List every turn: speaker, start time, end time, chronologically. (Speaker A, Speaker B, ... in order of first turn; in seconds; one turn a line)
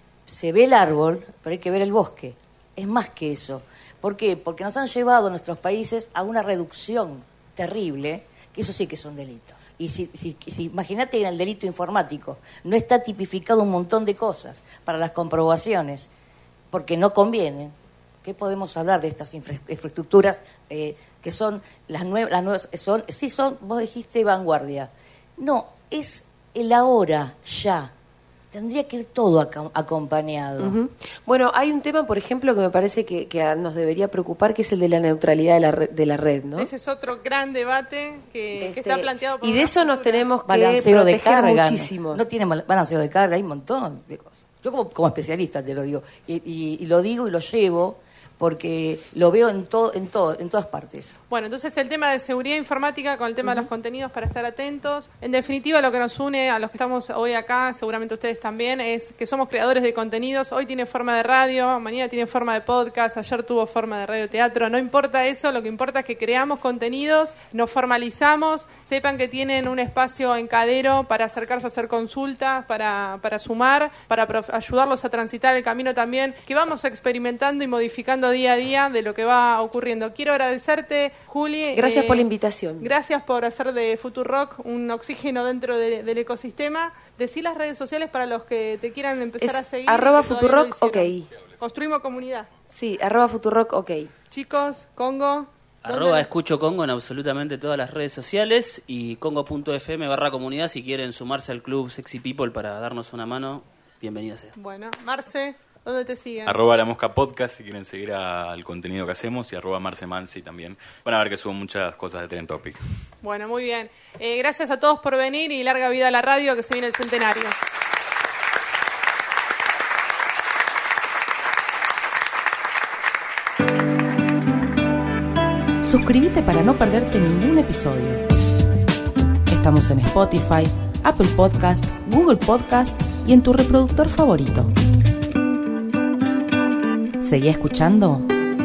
Speaker A: 0.3-16.1
Speaker A: 16.7-27.9
Speaker A: 28.5-30.8
Speaker B: 30.6-36.7
Speaker C: 36.6-40.3
Speaker B: 38.6-42.2
Speaker A: 40.5-51.1
Speaker C: 51.3-82.3
Speaker B: 81.8-82.9
Speaker C: 82.8-92.5
Speaker B: 89.4-91.3
Speaker B: 92.7-94.1
Speaker C: 94.3-96.3
Speaker D: 95.8-104.5
Speaker C: 104.6-106.6
Speaker E: 106.5-112.8
Speaker C: 113.2-117.5
Speaker F: 125.8-128.2
Speaker F: 129.5-134.7
Speaker F: 137.2-138.3